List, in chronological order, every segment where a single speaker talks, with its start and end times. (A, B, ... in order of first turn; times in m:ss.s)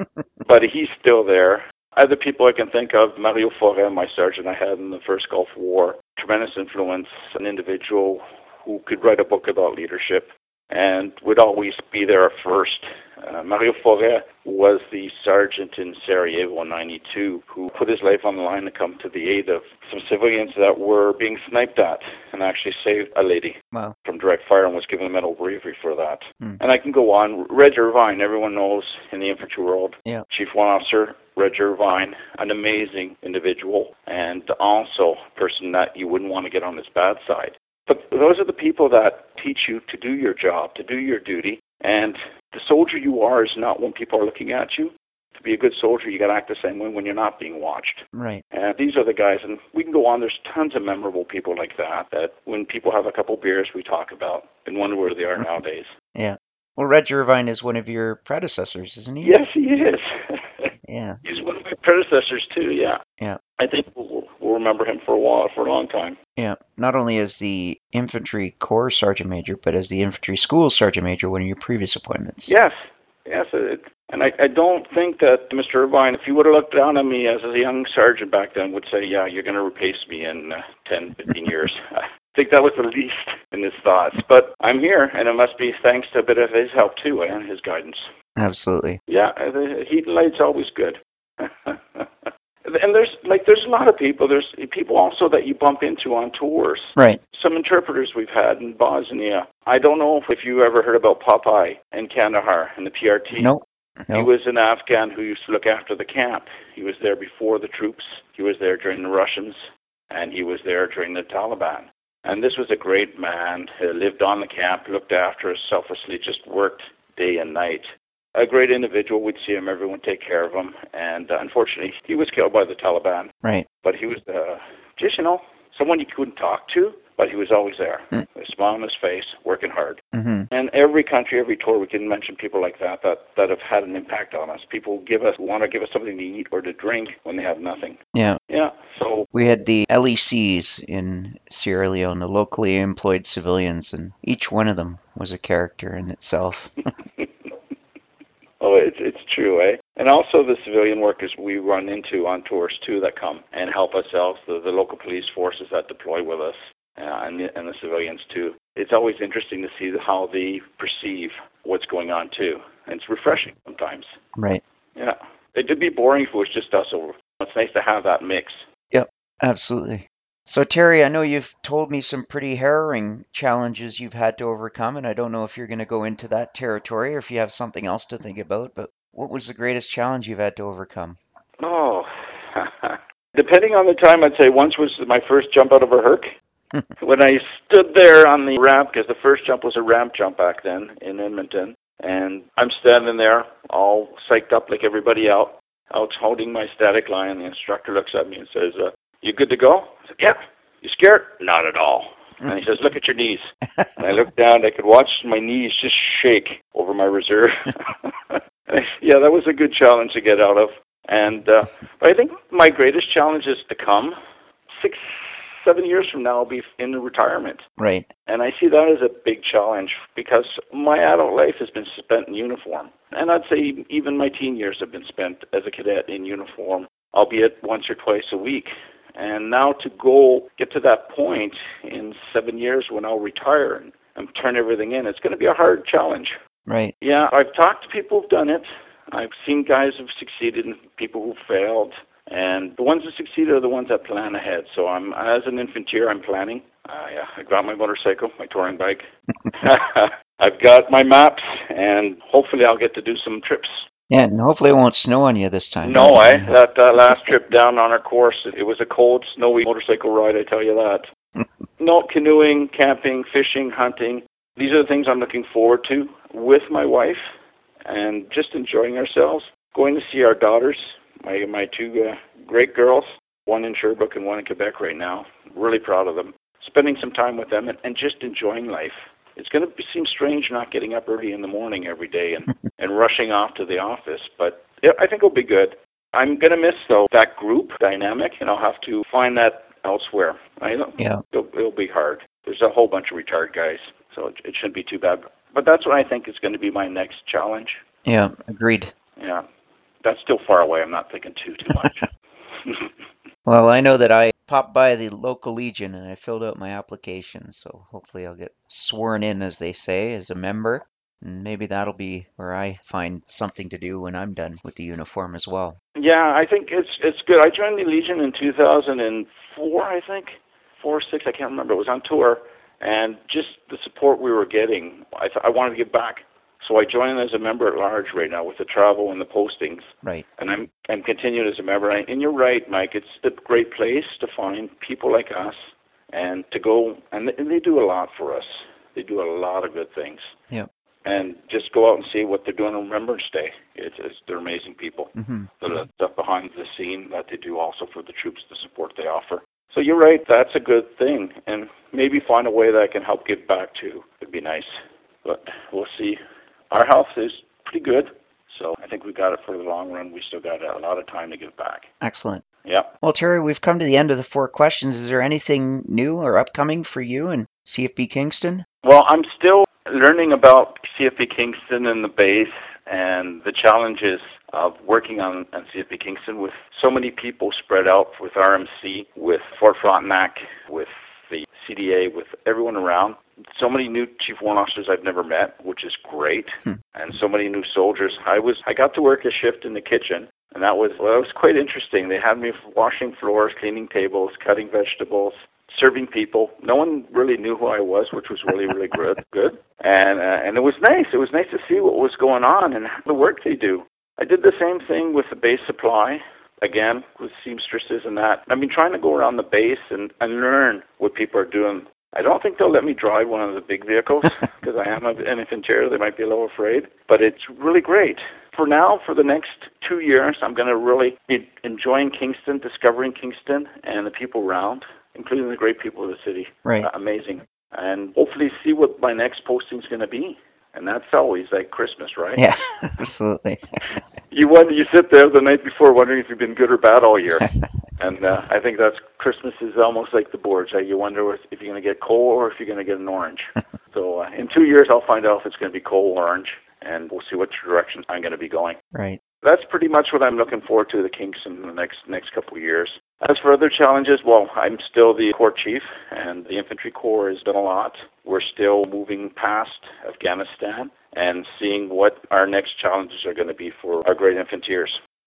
0:00.4-0:55.9 A
0:48.1-0:48.4 B
0:56.1-0:59.3 B
0:59.2-1:00.7 A
1:00.9-1:01.2 B
1:01.2-1:03.0 A
1:03.6-1:06.2 A
1:06.4-1:12.5 B
1:12.5-1:12.7 A
1:13.3-1:28.1 A
1:28.4-1:29.0 B
1:29.1-1:43.5 A
1:43.4-1:44.3 B
1:44.1-2:03.3 A
2:03.8-2:10.0 A
2:10.1-2:10.5 B
2:10.5-2:18.0 A
2:18.1-2:18.4 B
2:18.5-2:19.3 A
2:19.3-2:26.7 B
2:28.6-2:44.1 A
2:44.4-2:44.6 B
2:45.0-2:48.6 A
2:48.9-3:01.2 B
3:01.6-3:06.3 A
3:07.0-3:34.1 A
3:34.8-3:37.6 A
3:37.8-3:38.1 B
3:38.3-3:56.4 A
3:56.7-3:56.9 B
3:57.0-4:13.8 A
4:14.1-4:16.6 B
4:15.8-4:21.0 A
4:21.8-4:27.2 A
4:27.9-4:57.8 A
4:58.0-4:58.9 B
4:59.2-4:59.4 A
5:00.0-5:02.1 A
5:02.6-5:02.9 A
5:03.4-5:15.8 B
5:16.0-5:35.6 A
5:36.1-5:40.3 A
5:41.0-5:54.7 A
5:45.2-5:45.5 B
5:55.2-5:56.2 A
5:56.7-6:01.9 A
6:02.0-6:02.4 B
6:02.6-6:02.9 A
6:03.0-6:08.6 B
6:08.8-7:12.5 A
7:12.4-7:13.6 B
7:14.3-7:28.8 A
7:28.9-7:29.2 B
7:29.4-7:45.0 A